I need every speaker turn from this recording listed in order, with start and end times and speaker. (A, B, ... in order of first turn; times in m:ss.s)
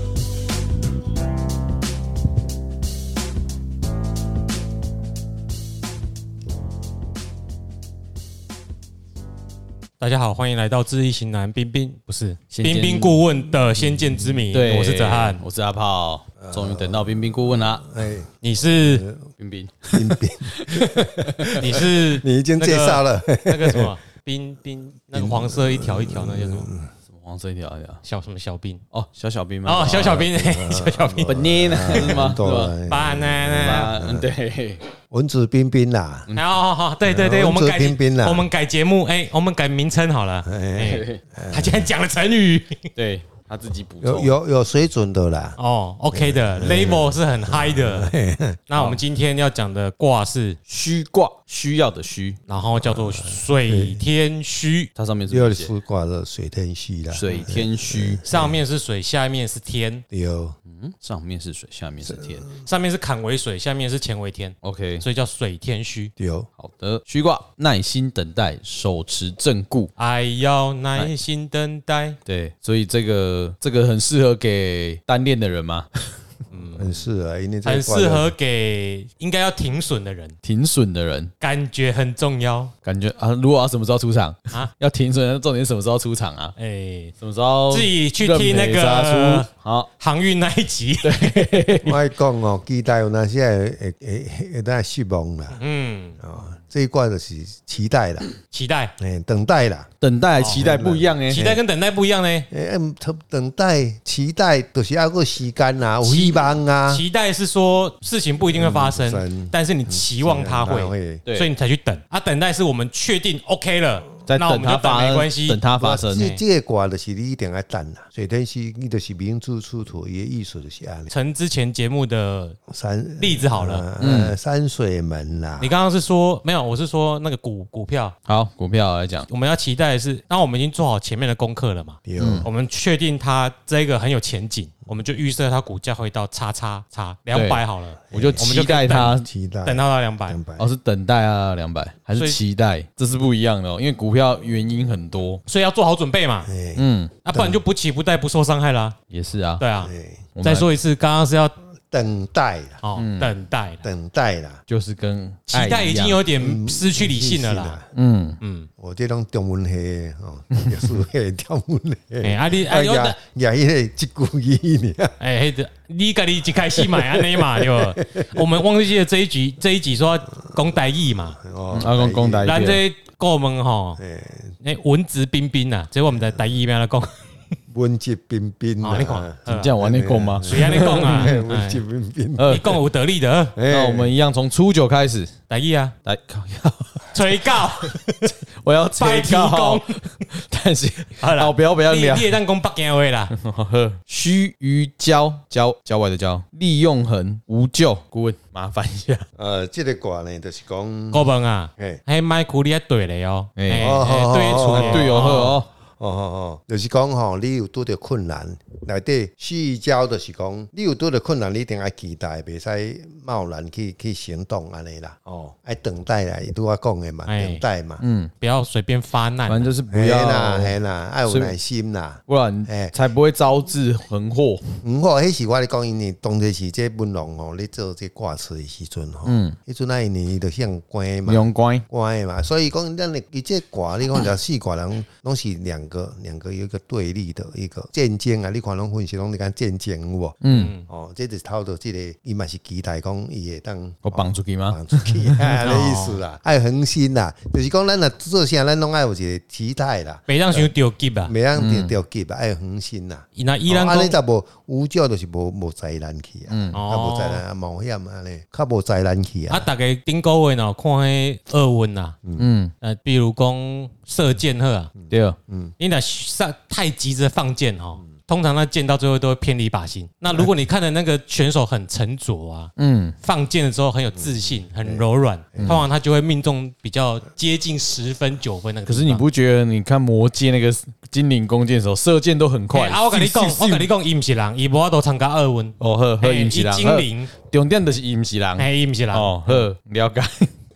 0:10.0-0:15.4 A
0:12.5-0:13.2 B
0:14.5-0:17.9 B
0:16.4-0:19.3 C
0:18.4-0:19.0 A
0:19.4-0:21.6 B
0:19.9-0:23.9 C
0:21.6-0:26.7 A
0:25.1-0:26.9 C
0:27.1-0:28.0 B
0:28.0-0:28.8 A
0:28.9-0:30.4 B
0:29.6-0:32.2 A
0:30.4-0:34.3 C
0:31.2-0:32.7 B
0:32.9-0:34.0 A
0:33.6-0:34.8 B
0:35.1-0:36.3 C
0:36.4-0:42.9 A
0:37.0-0:38.5 C
0:40.5-0:41.9 C
0:40.8-0:41.2 B
0:43.0-0:44.3 B
0:44.0-0:45.6 C
0:45.6-0:48.1 A
0:46.1-0:49.0 C
0:48.7-0:50.6 A
0:50.7-0:52.4 B
0:52.5-0:54.9 A
0:52.8-0:54.0 C
0:55.0-0:55.7 B
0:55.3-0:58.6 C
0:57.1-0:58.2 B
0:58.3-1:00.0 A
1:00.1-1:00.6 C
1:00.7-1:02.5 B
1:02.6-1:06.1 A
1:04.6-1:05.0 B
1:06.2-1:06.5 C
1:06.6-1:09.9 B
1:10.0-1:12.2 A
1:12.3-1:15.9 B
1:16.5-1:17.0 A
1:16.8-1:18.3 C
1:17.6-1:20.4 A
1:20.4-1:21.3 B
1:21.4-1:22.7 A
1:22.8-1:26.5 B
1:26.6-1:27.2 A
1:27.2-1:29.9 B
1:27.7-1:29.5 A
1:30.0-1:31.7 A
1:31.0-1:32.0 B
1:31.8-1:35.6 C
1:35.6-1:36.2 A
1:36.2-1:38.3 C
1:38.5-1:38.9 A
1:39.0-1:39.9 C
1:40.0-1:41.4 B
1:40.4-1:41.6 C
1:41.3-1:42.5 A
1:42.5-1:47.0 C
1:46.0-1:56.4 A
1:48.5-1:51.2 C
1:51.3-1:51.5 B
1:54.3-1:56.3 B
1:55.8-2:01.1 C
2:01.1-2:02.6 A
2:02.7-2:05.7 C
2:03.2-2:03.8 A
2:04.0-2:04.4 B
2:05.6-2:08.2 A
2:08.3-2:09.3 B
2:09.3-2:20.4 A
2:12.1-2:12.5 C
2:12.2-2:12.5 B
2:17.3-2:19.3 B
2:18.1-2:18.4 C
2:19.2-2:20.7 C
2:20.6-2:25.4 B
2:25.5-2:26.5 A
2:26.5-2:26.8 C
2:26.8-2:27.2 B
2:27.2-2:29.0 A
2:27.3-2:27.6 C
2:29.1-2:29.6 B
2:29.6-2:31.5 A
2:29.8-2:30.2 C
2:30.4-2:30.7 B
2:31.8-2:32.8 C
2:32.8-2:33.9 A
2:33.0-2:33.3 B
2:33.8-2:34.6 C
2:34.7-2:36.2 B
2:35.5-2:37.8 A
2:36.3-2:37.9 C
2:37.9-2:38.4 B
2:38.4-2:38.7 A
2:38.8-2:45.2 C
2:42.2-2:43.2 A
2:45.2-2:51.4 A
2:46.8-2:48.4 C
2:51.3-2:52.6 C
2:51.7-2:52.8 B
2:52.4-2:54.0 A
2:54.0-2:54.6 C
2:54.6-2:57.2 A
2:56.1-2:56.4 C
2:57.7-3:02.8 C
2:58.8-2:59.8 A
2:59.5-3:01.4 B
3:00.4-3:01.8 A
3:02.4-3:02.8 B
3:02.5-3:03.6 A
3:03.6-3:04.1 C
3:03.7-3:05.4 B
3:05.5-3:06.0 A
3:06.0-3:07.8 B
3:07.1-3:08.2 A
3:08.6-3:12.4 B
3:09.0-3:10.2 A
3:11.2-3:13.3 A
3:13.3-3:19.3 B
3:19.4-3:22.0 C
3:21.1-3:25.6 A
3:23.6-3:23.9 B
3:23.8-3:38.0 C
3:24.6-3:25.7 B
3:37.3-3:37.6 A
3:38.0-3:38.3 B
3:38.4-3:39.7 A
3:39.5-3:41.6 B
3:39.9-3:43.0 C
3:42.3-3:44.8 B
3:44.8-4:10.7 C
3:49.2-3:49.6 B
3:51.3-3:51.8 B
4:00.4-4:00.7 B
4:00.5-4:00.9 A
4:04.0-4:05.6 B
4:05.6-4:06.2 A
4:10.3-4:11.3 A
4:11.2-4:19.7 C
4:11.6-4:12.0 B
4:13.4-4:14.2 A
4:16.5-4:16.8 B
4:16.7-4:17.4 A
4:19.5-4:22.2 A
4:22.4-4:22.7 B
4:22.8-4:24.9 A
4:25.0-4:25.7 C
4:25.1-4:25.4 B
4:25.8-4:39.2 A
4:32.8-4:33.2 B
4:34.2-4:35.8 C
4:35.6-4:35.8 B
4:38.9-4:43.9 B
4:42.7-4:47.3 A
4:45.8-4:50.5 B
4:48.6-4:49.3 A